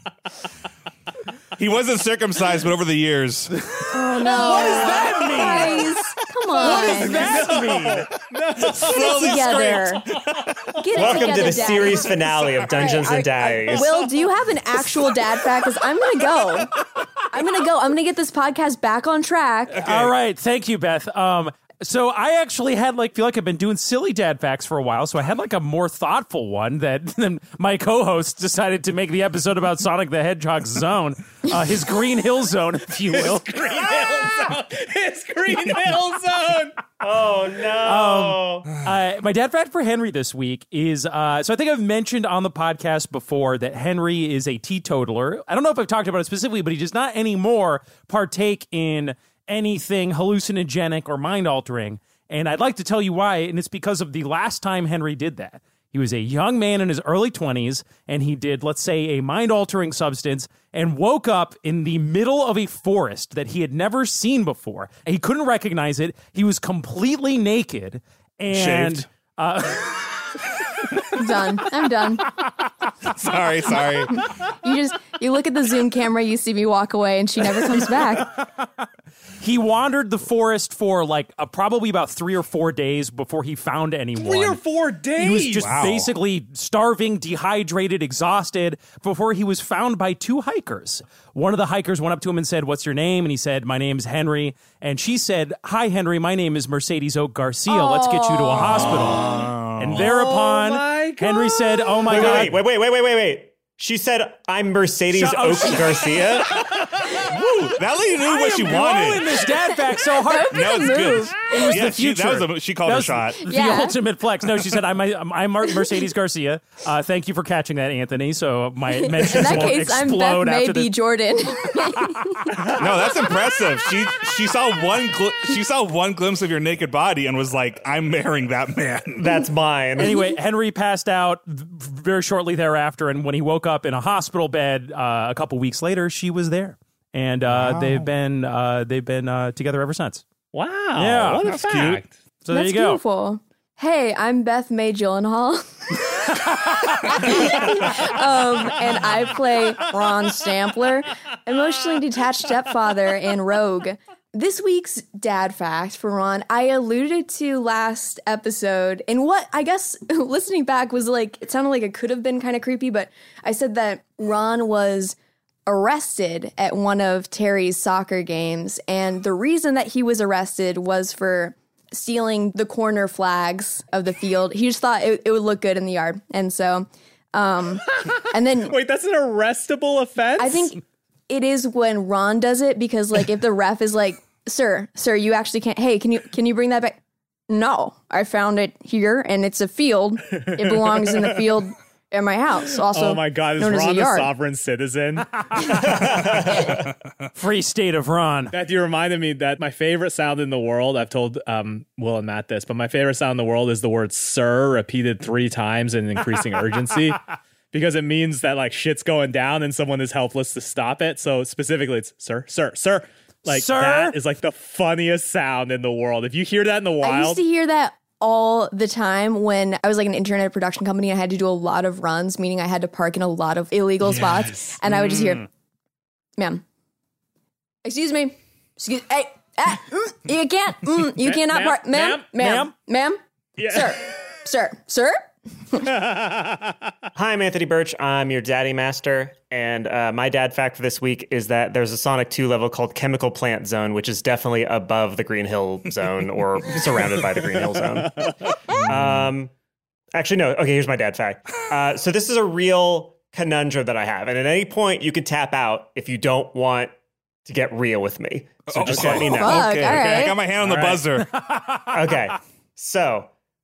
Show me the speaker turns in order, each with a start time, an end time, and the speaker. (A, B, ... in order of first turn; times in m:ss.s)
0:01.6-0:03.5 A
0:03.9-0:07.3 B
0:04.2-0:05.8 C
0:06.6-0:08.1 C
0:06.8-0:09.3 D
0:08.6-0:10.4 A
0:09.0-0:10.0 B
0:10.8-0:19.8 B
0:11.0-0:13.9 E
0:19.8-0:20.1 A
0:19.8-0:33.4 C
0:33.1-0:36.8 D
0:37.0-0:38.7 E
0:37.8-1:10.3 C
1:08.5-1:09.0 A
1:11.2-1:12.2 B
1:13.1-1:14.2 A
1:14.6-1:18.3 B
1:19.4-1:24.6 C
1:24.2-1:25.8 D
1:25.2-1:39.2 C
1:25.4-1:26.1 A
1:37.7-1:38.7 B
1:38.7-1:40.1 A
1:39.8-1:42.6 C
1:39.9-1:42.4 D
1:42.1-1:46.6 E
1:45.1-1:46.2 C
1:47.0-1:49.3 A
1:48.2-1:50.9 C
1:49.5-1:51.9 B
1:50.5-1:53.5 A
1:51.5-2:00.9 C
1:53.4-1:54.0 B
1:58.9-2:02.6 B
2:02.6-2:09.3 A
2:09.2-2:10.2 E
2:10.0-2:20.2 C
2:10.0-2:10.4 B
2:17.5-2:18.1 A
2:20.5-2:22.1 D
2:21.0-2:21.8 C
2:21.4-2:22.0 A
2:22.4-2:23.0 C
2:22.5-2:26.1 B
2:27.0-2:58.8 B
2:58.6-3:00.8 D
3:00.4-3:07.0 B
3:07.5-3:14.3 B
3:10.4-3:11.2 D
3:12.9-3:15.3 D
3:15.6-3:16.7 E
3:17.4-3:18.5 C
3:18.5-3:27.2 D
3:27.7-3:37.4 D
3:33.5-3:34.2 C
3:37.0-3:45.5 B
3:46.4-3:46.6 B
3:47.8-3:55.9 B
3:51.2-3:52.3 D
3:52.3-3:52.7 C
3:53.6-3:53.9 D
3:55.8-3:56.7 D
3:57.1-4:09.5 E
4:08.7-4:09.3 A
4:10.1-4:16.9 E
4:17.4-4:19.9 E
4:18.7-4:21.3 A
4:18.8-4:19.2 D
4:19.2-4:20.4 B
4:20.6-4:21.0 D
4:21.3-4:21.9 C
4:21.9-4:23.3 E